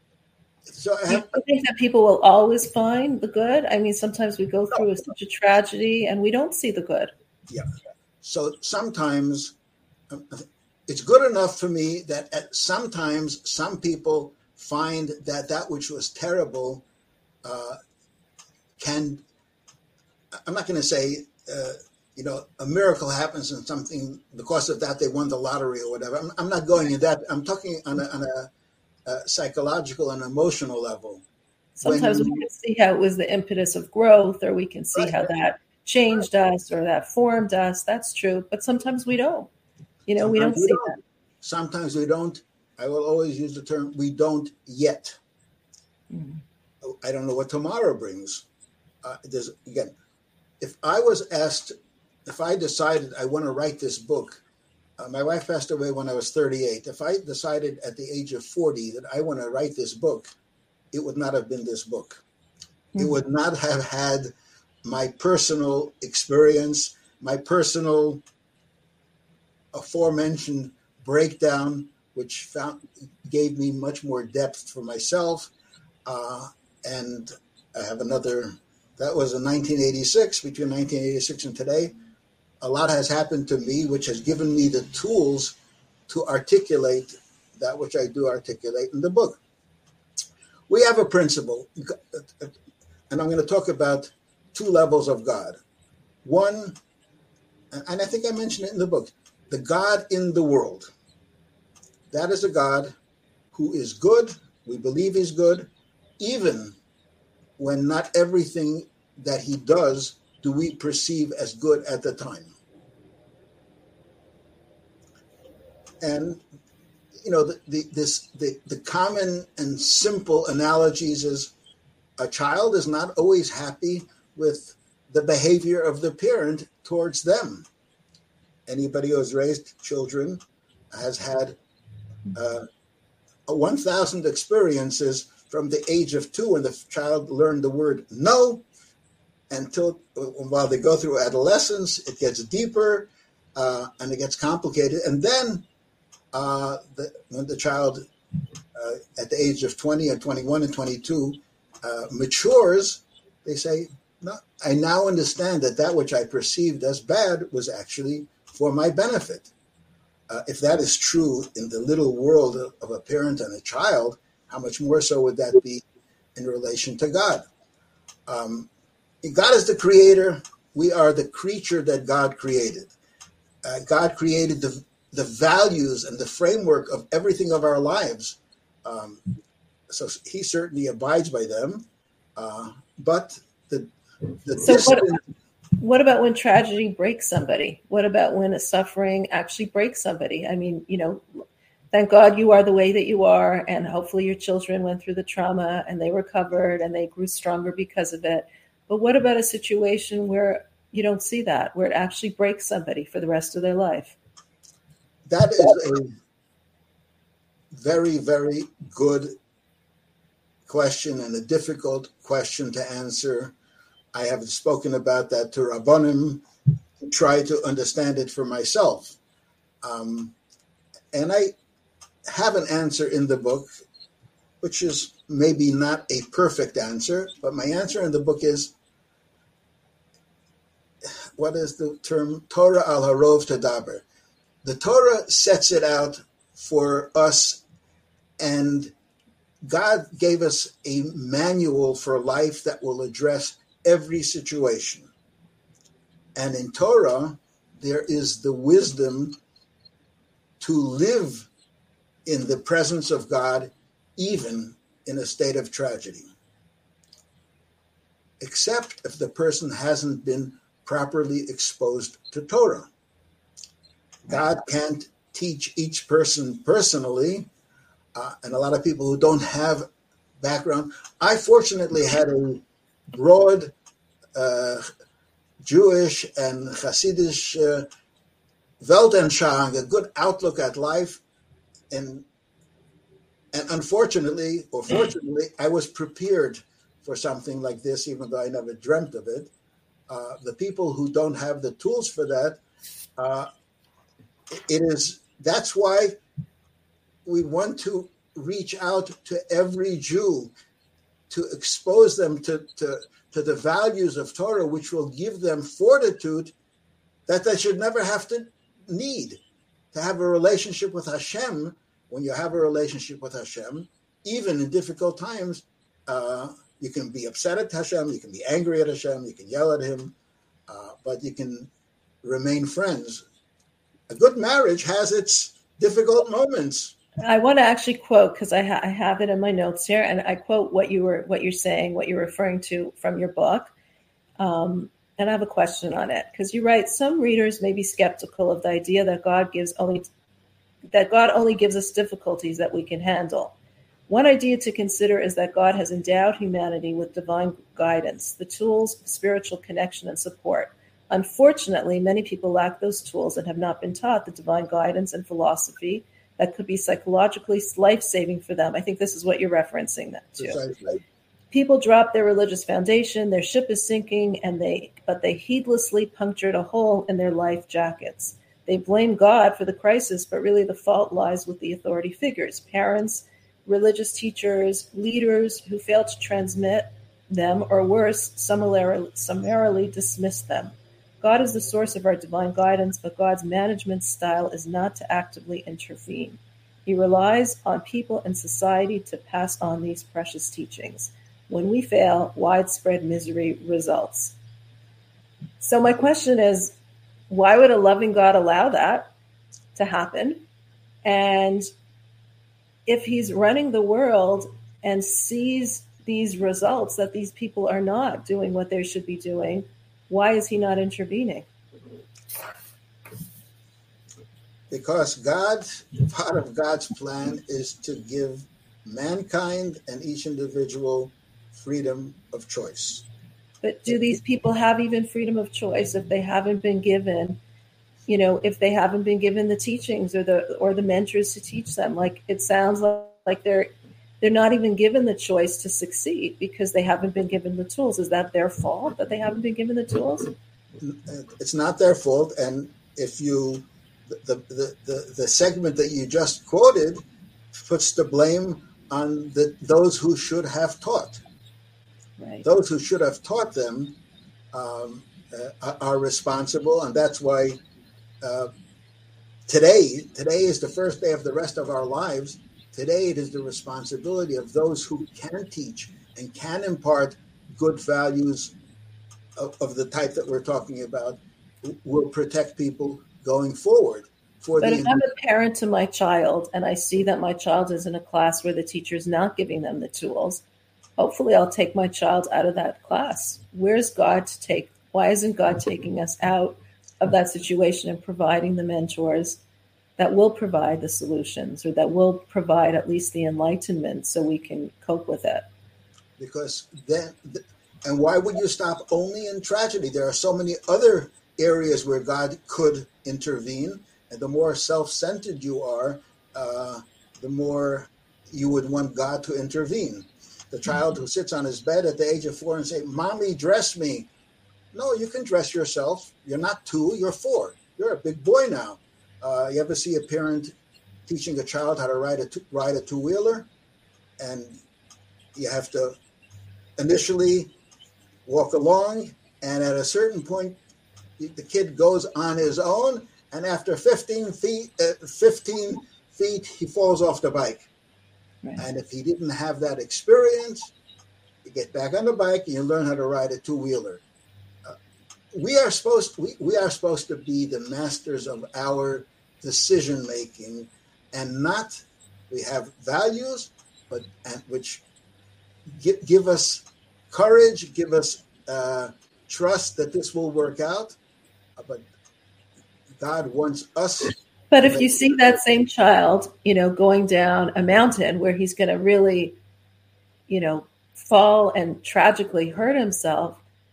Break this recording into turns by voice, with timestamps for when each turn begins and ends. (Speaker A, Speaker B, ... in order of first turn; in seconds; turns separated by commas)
Speaker A: 0.7-1.4, Speaker B: 1.1-7.1, Speaker A: 8.2-9.6, Speaker A: 10.1-16.8, Speaker A: 17.4-17.8, Speaker A: 18.8-19.2, Speaker A: 20.5-28.5, Speaker A: 29.1-31.2, Speaker B: 31.8-39.5, Speaker A: 31.8-32.5, Speaker A: 35.0-35.3, Speaker B: 40.1-41.0, Speaker A: 40.2-45.2, Speaker B: 46.1-46.4, Speaker A: 46.8-48.5, Speaker A: 49.0-50.0, Speaker A: 50.6-51.7, Speaker A: 52.3-54.4, Speaker A: 55.0-60.3, Speaker A: 60.9-62.2, Speaker A: 63.0-64.3, Speaker A: 64.8-68.2, Speaker A: 69.7-75.5, Speaker A: 76.1-82.0, Speaker A: 82.6-85.6, Speaker A: 86.1-89.4, Speaker A: 90.7-92.5, Speaker A: 93.1-95.6, Speaker A: 96.2-96.8, Speaker A: 97.7-100.9, Speaker A: 102.1-102.9, Speaker A: 103.5-105.7, Speaker A: 106.2-106.8, Speaker A: 107.6-112.5, Speaker A: 116.0-116.4, Speaker A: 117.2-121.5, Speaker A: 122.2-127.7, Speaker A: 128.7-130.4, Speaker A: 130.9-131.6, Speaker A: 132.3-132.7, Speaker A: 133.5-138.7, Speaker A: 139.5-145.7, Speaker A: 146.3-148.1, Speaker A: 148.7-159.5, Speaker A: 160.3-167.4, Speaker A: 168.3-168.7, Speaker A: 169.2-172.9, Speaker A: 173.6-179.2, Speaker A: 179.9-185.2, Speaker B: 184.6-185.2, Speaker B: 185.8-191.2, Speaker B: 191.9-204.2, Speaker A: 205.3-206.1, Speaker A: 207.7-209.3, Speaker A: 210.7-213.6, Speaker A: 214.1-216.4, Speaker A: 217.0-219.2, Speaker A: 219.8-220.3, Speaker A: 221.1-221.5, Speaker A: 222.3-223.7, Speaker A: 224.6-228.7, Speaker A: 231.4-234.0, Speaker A: 234.6-237.6, Speaker A: 238.4-238.9, Speaker A: 239.7-245.1, Speaker A: 246.4-249.4, Speaker A: 250.6-251.5, Speaker A: 252.2-256.3, Speaker A: 258.4-262.9, Speaker A: 264.2-267.5, Speaker A: 268.1-269.9, Speaker A: 270.4-273.7, Speaker A: 274.4-274.9, Speaker A: 275.6-277.9, Speaker A: 278.8-281.2, Speaker A: 281.9-282.3, Speaker A: 283.5-289.5, Speaker A: 290.1-292.6, Speaker A: 293.2-293.5, Speaker A: 294.5-296.2, Speaker A: 297.2-300.5, Speaker A: 301.3-306.5, Speaker A: 307.3-309.4, Speaker A: 309.9-320.1, Speaker A: 320.7-321.7, Speaker A: 322.2-323.2, Speaker A: 324.1-327.0, Speaker B: 327.2-333.7, Speaker B: 334.4-340.1, Speaker B: 340.9-343.6, Speaker B: 344.1-360.6, Speaker A: 360.4-361.0, Speaker B: 361.5-394.4, Speaker B: 395.6-396.8, Speaker B: 397.3-399.1, Speaker B: 399.8-400.4, Speaker B: 401.0-401.7, Speaker B: 402.9-411.5, Speaker A: 414.7-423.1, Speaker B: 423.6-427.4, Speaker B: 428.1-440.3, Speaker A: 440.8-447.0, Speaker A: 447.6-451.2, Speaker B: 452.2-452.4, Speaker A: 452.4-454.0, Speaker A: 454.5-457.6, Speaker A: 458.2-458.5, Speaker A: 459.5-468.5, Speaker A: 469.4-475.1, Speaker B: 474.6-480.4, Speaker B: 481.0-489.4, Speaker B: 490.0-495.5, Speaker A: 496.2-514.1, Speaker A: 514.7-520.5, Speaker A: 521.1-523.5, Speaker A: 524.2-524.6, Speaker A: 525.4-526.0, Speaker A: 526.8-527.5, Speaker A: 528.3-530.6, Speaker A: 531.2-537.7, Speaker A: 538.6-540.7, Speaker A: 541.5-544.0, Speaker A: 545.3-554.8, Speaker A: 555.7-561.0, Speaker A: 561.6-561.9, Speaker A: 563.0-565.0, Speaker B: 564.5-569.4, Speaker B: 570.3-573.4